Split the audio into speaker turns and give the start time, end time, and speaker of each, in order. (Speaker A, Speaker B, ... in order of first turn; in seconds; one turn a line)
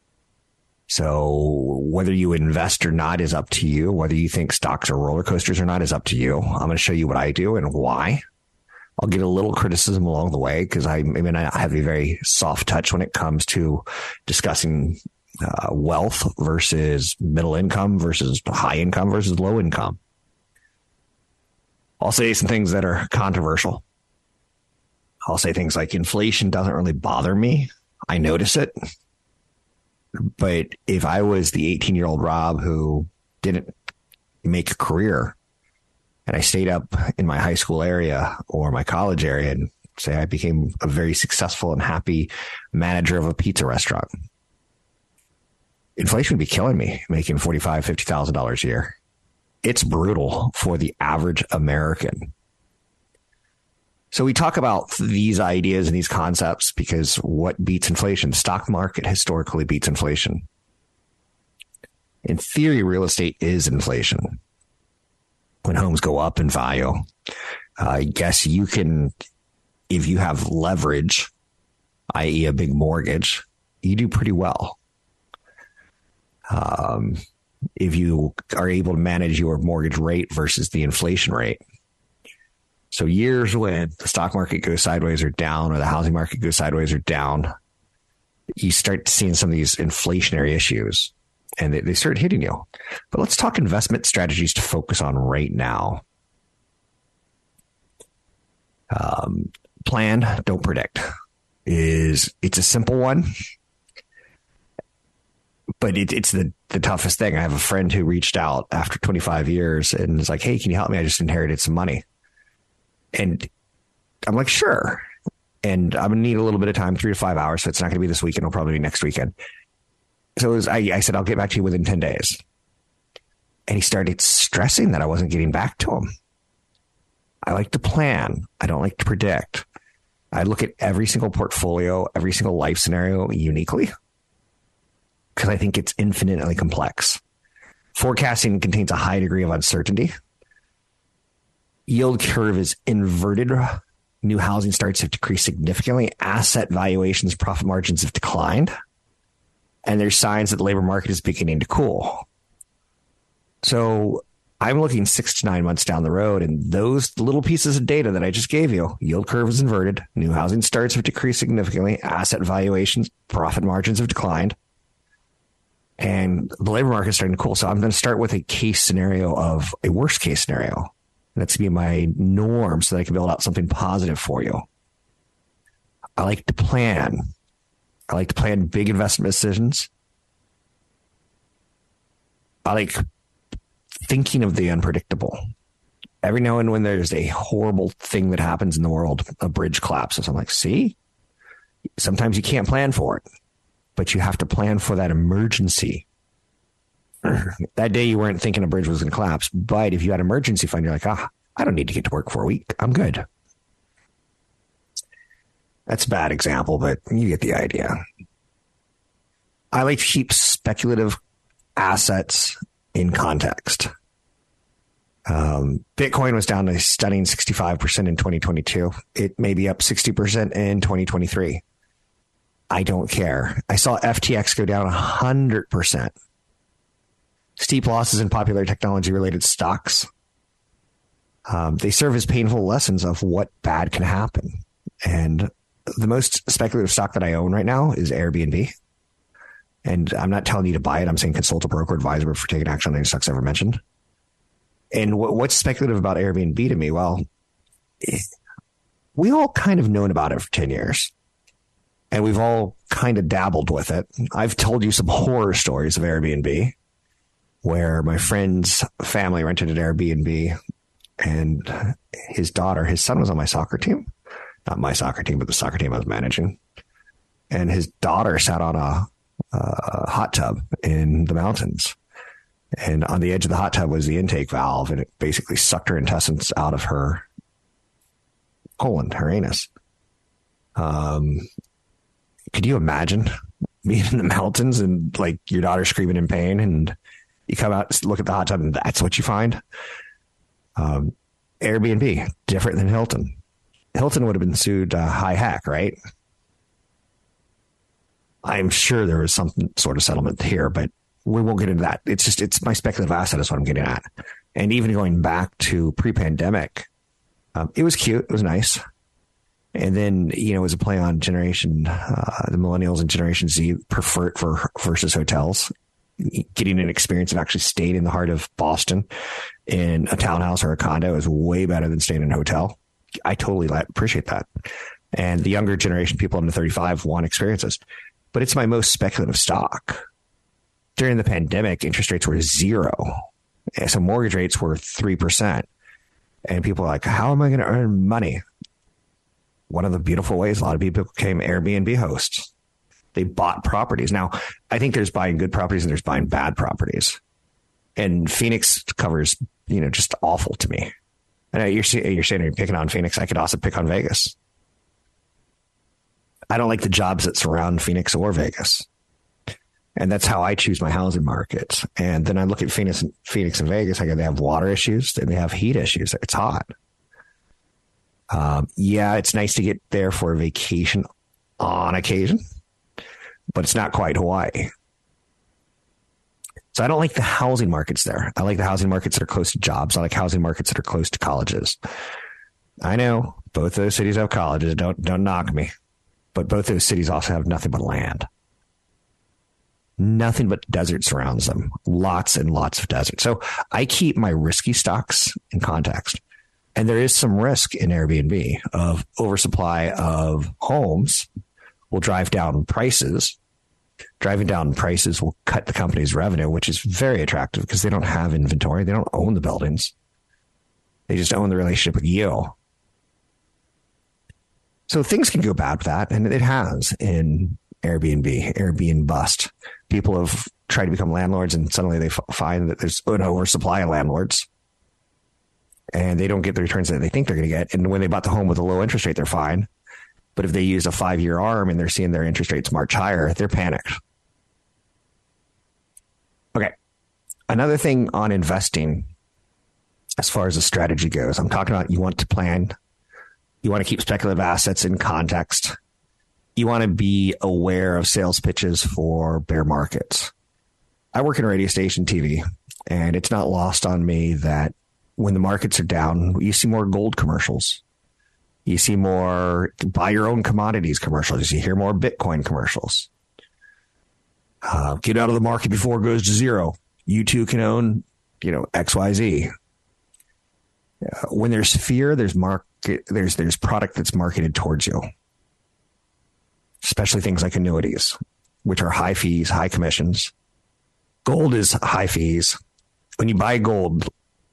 Speaker A: 0.9-8.2
Speaker A: 9.0-20.0
Speaker A: 22.0-23.8
Speaker A: 25.3-28.7
Speaker A: 30.2-33.7
Speaker A: 34.4-35.4
Speaker A: 36.3-44.1
Speaker A: 46.0-48.9
Speaker A: 49.6-52.3
Speaker A: 54.1-60.5
Speaker A: 62.2-64.4
Speaker A: 65.6-67.0
Speaker A: 67.8-69.1
Speaker A: 69.9-71.3
Speaker A: 72.1-74.8
Speaker A: 76.5-77.2
Speaker A: 77.8-81.6
Speaker A: 82.9-87.5
Speaker A: 88.6-96.0
Speaker A: 98.9-101.1
Speaker A: 101.7-103.3
Speaker A: 105.8-112.0
Speaker A: 113.1-113.5
Speaker A: 114.2-115.1
Speaker A: 115.6-119.3
Speaker A: 120.4-122.4
Speaker A: 123.7-126.1
Speaker A: 127.4-129.6
Speaker A: 130.3-133.9
Speaker A: 135.3-137.2
Speaker A: 137.9-140.1
Speaker A: 141.9-148.7
Speaker A: 149.8-152.2
Speaker A: 153.6-164.6
Speaker A: 166.0-174.6
Speaker A: 176.2-177.3
Speaker A: 178.1-179.9
Speaker A: 182.6-183.0
Speaker A: 184.0-185.4
Speaker A: 186.2-190.9
Speaker A: 192.0-193.2
Speaker A: 193.9-196.0
Speaker A: 197.2-203.2
Speaker A: 205.9-208.0
Speaker A: 209.7-211.2
Speaker A: 211.8-213.9
Speaker A: 215.2-221.6
Speaker A: 222.7-226.1
Speaker A: 227.6-230.1
Speaker A: 231.5-238.7
Speaker A: 239.8-243.8
Speaker A: 244.9-247.2
Speaker A: 249.2-251.1
Speaker A: 252.1-256.7
Speaker A: 257.6-260.6
Speaker A: 261.2-264.1
Speaker A: 264.7-266.6
Speaker A: 267.5-271.9
Speaker A: 272.8-277.2
Speaker A: 278.8-279.7
Speaker A: 280.8-281.5
Speaker A: 282.5-286.9
Speaker A: 287.5-289.6
Speaker A: 290.8-293.4
Speaker A: 293.9-295.9
Speaker A: 298.4-306.9
Speaker A: 307.5-308.8
Speaker A: 309.7-319.1
Speaker A: 319.7-324.5
Speaker A: 325.1-327.8
Speaker A: 328.3-330.0
Speaker A: 330.9-333.2
Speaker A: 333.8-335.7
Speaker A: 336.5-338.4
Speaker A: 339.7-342.5
Speaker A: 343.1-347.2
Speaker A: 348.0-350.9
Speaker A: 351.5-354.4
Speaker A: 356.5-358.9
Speaker A: 360.0-366.7
Speaker A: 368.3-371.1
Speaker A: 371.6-372.4
Speaker A: 373.5-374.7
Speaker A: 376.7-381.8
Speaker A: 382.8-385.7
Speaker A: 386.3-388.3
Speaker A: 390.0-396.2
Speaker A: 396.7-401.3
Speaker A: 401.9-403.4
Speaker A: 404.2-409.9
Speaker A: 411.1-412.5
Speaker A: 414.9-424.5
Speaker A: 425.9-429.7
Speaker A: 430.4-434.0
Speaker A: 437.5-439.1
Speaker A: 440.2-442.7
Speaker A: 443.6-445.8
Speaker A: 446.6-450.3
Speaker A: 451.1-457.8
Speaker A: 458.6-463.1
Speaker A: 464.6-469.5
Speaker A: 471.0-475.0
Speaker A: 476.8-480.3
Speaker A: 481.2-482.6
Speaker A: 483.2-484.1